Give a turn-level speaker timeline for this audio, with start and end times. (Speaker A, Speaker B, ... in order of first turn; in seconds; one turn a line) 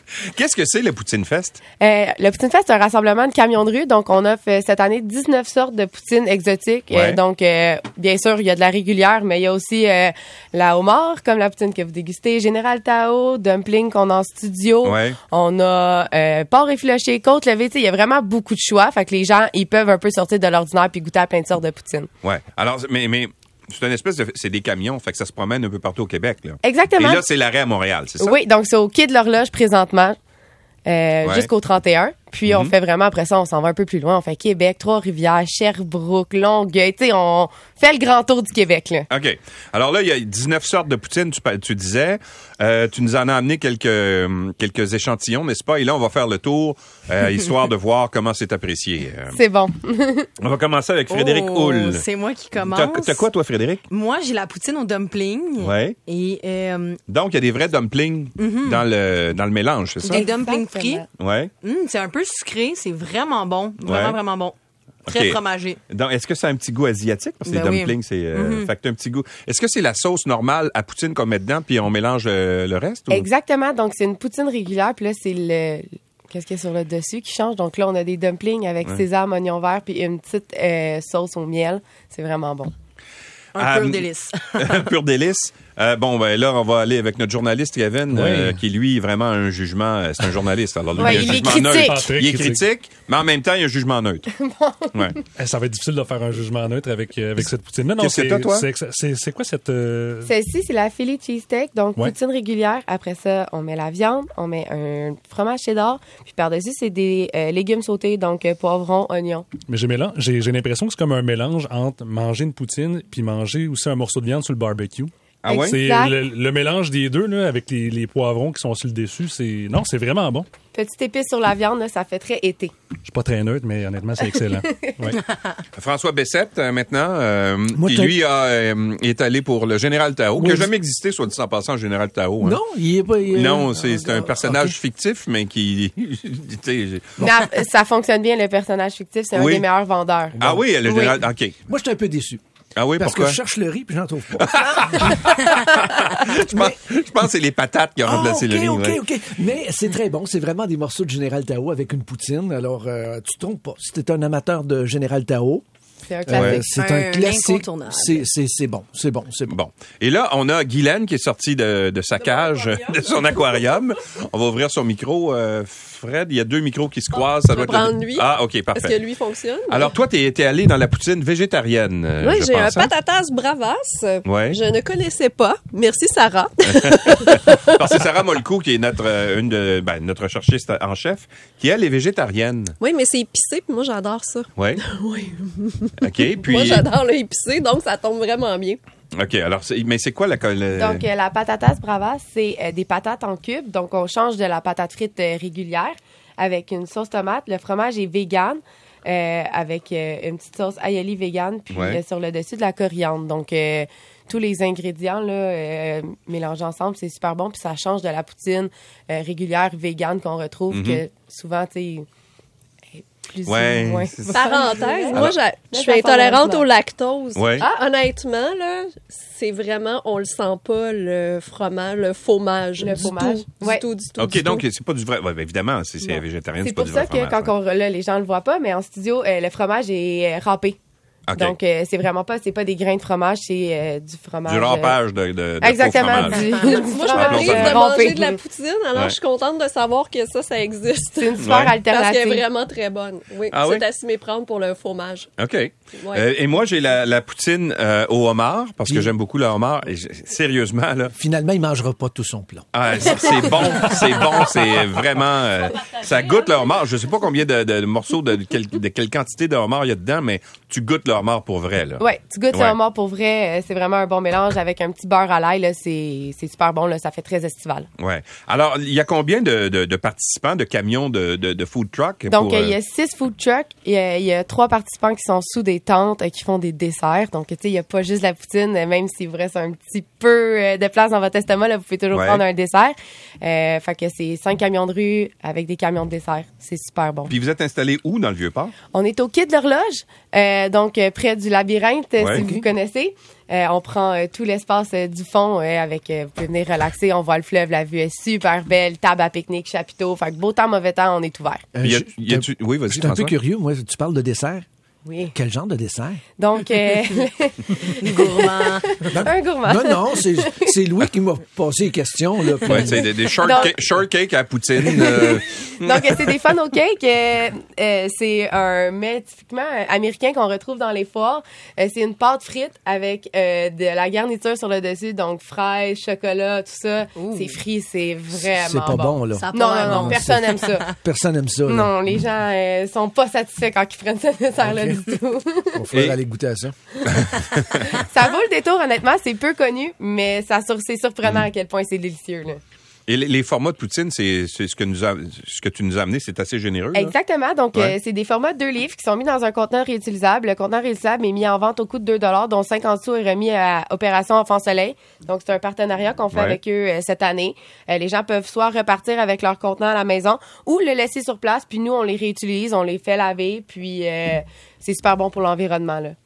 Speaker A: 0.2-1.6
Speaker B: 1.8-22.1
Speaker A: 6.9-7.2
Speaker A: 14.8-15.2
Speaker A: 22.2-28.4
Speaker B: 26.6-27.2
Speaker B: 28.2-30.1
Speaker B: 30.9-39.1
Speaker A: 31.2-31.5
Speaker A: 32.5-32.7
Speaker A: 39.1-49.4
Speaker B: 49.3-50.3
Speaker A: 50.4-52.0
Speaker C: 51.1-53.3
Speaker A: 52.6-53.8
Speaker C: 53.9-57.0
Speaker A: 55.6-56.0
Speaker A: 57.1-60.2
Speaker C: 58.4-58.8
Speaker C: 60.0-61.0
Speaker B: 60.1-61.1
Speaker A: 61.2-61.5
Speaker C: 61.6-64.5
Speaker A: 63.8-64.2
Speaker A: 65.0-73.3
Speaker C: 65.1-65.8
Speaker C: 67.5-68.7
Speaker B: 73.1-82.7
Speaker C: 83.5-84.9
Speaker A: 83.5-84.0
Speaker A: 84.6-94.2
Speaker D: 88.1-88.6
Speaker B: 91.0-92.1
Speaker D: 91.0-92.6
Speaker B: 94.3-95.2
Speaker D: 95.4-100.3
Speaker A: 98.0-98.7
Speaker B: 100.2-109.5
Speaker D: 109.7-120.5
Speaker A: 115.4-115.8
Speaker B: 115.5-116.2
Speaker B: 120.7-122.7
Speaker D: 123.0-125.2
Speaker B: 124.2-124.9
Speaker A: 125.8-132.6
Speaker E: 127.7-128.2
Speaker E: 130.3-130.7
Speaker E: 132.4-134.8
Speaker A: 133.3-137.2
Speaker B: 137.2-141.2
Speaker A: 139.3-139.6
Speaker E: 140.4-140.6
Speaker A: 140.4-141.6
Speaker E: 141.7-142.4
Speaker A: 142.8-143.4
Speaker E: 143.0-145.2
Speaker A: 144.4-149.0
Speaker E: 146.3-146.8
Speaker E: 148.0-155.6
Speaker B: 156.1-156.6
Speaker E: 156.2-159.6
Speaker A: 156.3-156.6
Speaker C: 156.7-158.2
Speaker A: 159.5-169.0
Speaker F: 162.2-163.6
Speaker F: 167.1-169.9
Speaker A: 169.7-172.9
Speaker F: 172.2-178.0
Speaker A: 174.2-174.6
Speaker A: 176.7-182.8
Speaker F: 182.8-188.8
Speaker A: 184.5-184.8
Speaker A: 186.0-186.9
Speaker A: 189.1-191.0
Speaker B: 190.8-212.1
Speaker A: 201.7-202.0
Speaker A: 210.7-211.0
Speaker B: 212.9-216.7
Speaker A: 213.4-214.3
Speaker F: 214.3-224.6
Speaker A: 217.3-217.6
Speaker B: 222.8-223.8
Speaker A: 224.2-227.5
Speaker B: 226.6-230.8
Speaker A: 231.3-231.6
Speaker B: 231.4-235.0
Speaker A: 234.4-237.8
Speaker B: 235.6-238.4
Speaker F: 236.6-245.3
Speaker B: 241.2-242.5
Speaker A: 241.4-241.8
Speaker A: 243.5-243.8
Speaker A: 245.4-251.1
Speaker F: 245.9-246.3
Speaker E: 248.9-249.1
Speaker E: 251.1-253.1
Speaker A: 252.7-262.8
Speaker B: 262.0-267.9
Speaker A: 268.0-272.8
Speaker B: 272.3-287.3
Speaker A: 282.1-282.4
Speaker A: 287.3-288.7
Speaker B: 288.9-301.6
Speaker A: 292.2-292.4
Speaker E: 292.2-292.6
Speaker E: 301.7-304.6
Speaker A: 301.8-303.4
Speaker B: 305.1-305.3
Speaker E: 305.3-306.2
Speaker B: 306.4-310.7
Speaker C: 308.0-308.9
Speaker E: 309.0-313.1
Speaker A: 312.7-316.4
Speaker B: 313.3-313.9
Speaker B: 314.8-330.9
Speaker C: 327.1-327.6
Speaker E: 328.4-331.9
Speaker C: 329.3-330.9
Speaker B: 331.7-335.8
Speaker E: 334.6-335.2
Speaker E: 335.7-336.8
Speaker A: 337.1-337.8
Speaker B: 337.9-342.6
Speaker A: 343.1-347.1
Speaker B: 346.9-366.1
Speaker A: 356.3-356.6